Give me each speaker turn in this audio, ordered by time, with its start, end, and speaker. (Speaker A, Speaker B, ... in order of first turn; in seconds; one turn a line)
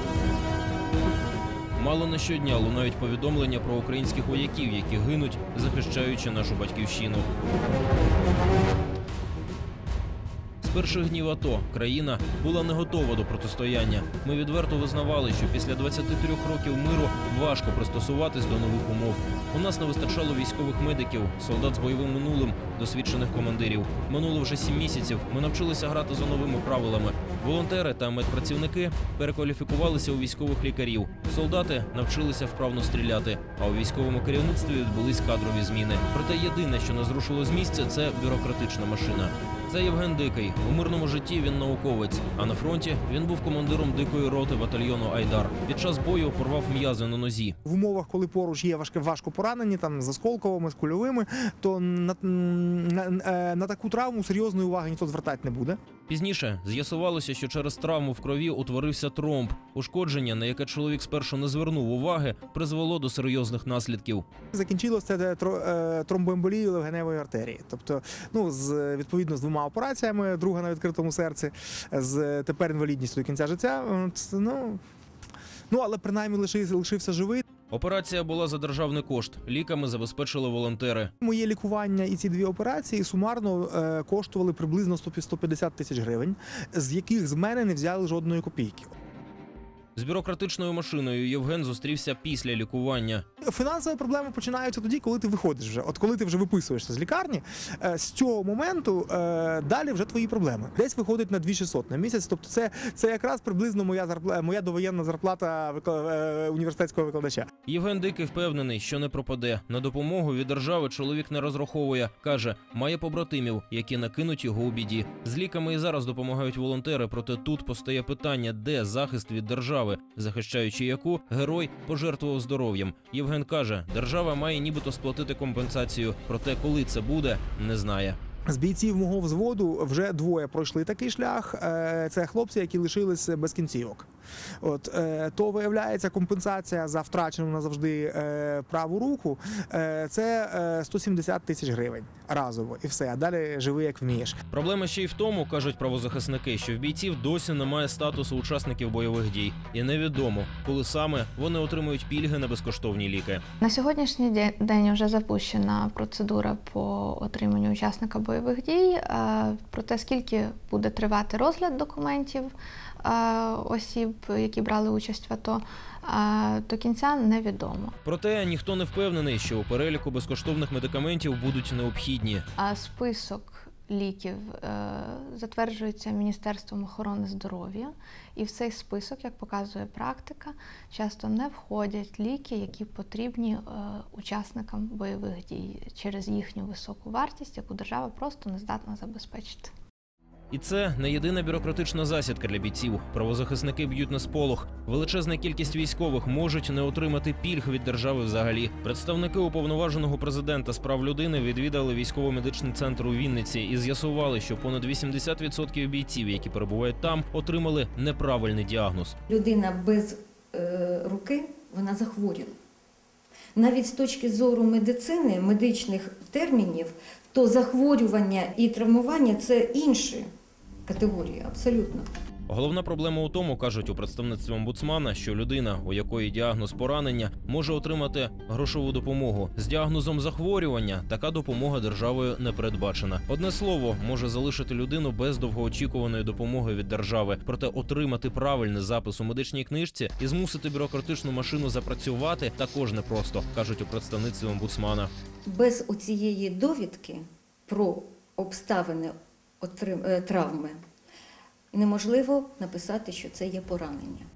Speaker A: 1.8-7.3
Speaker A: 10.6-47.6
Speaker B: 47.6-55.8
Speaker A: 56.1-64.2
Speaker B: 64.5-74.8
Speaker B: 75.7-77.5
Speaker A: 77.7-81.1
Speaker B: 81.2-88.9
Speaker A: 90.0-93.2
Speaker B: 93.4-107.5
Speaker A: 107.7-128.2
Speaker B: 128.5-134.1
Speaker B: 134.6-144.4
Speaker A: 144.5-153.4
Speaker C: 153.6-167.9
Speaker A: 168.1-172.4
Speaker C: 172.6-189.7
Speaker A: 190.5-209.2
Speaker D: 209.3-212.6
Speaker D: 213.6-220.3
Speaker D: 220.9-222.1
Speaker A: 222.5-245.1
Speaker D: 245.5-250.8
Speaker D: 251.7-254.3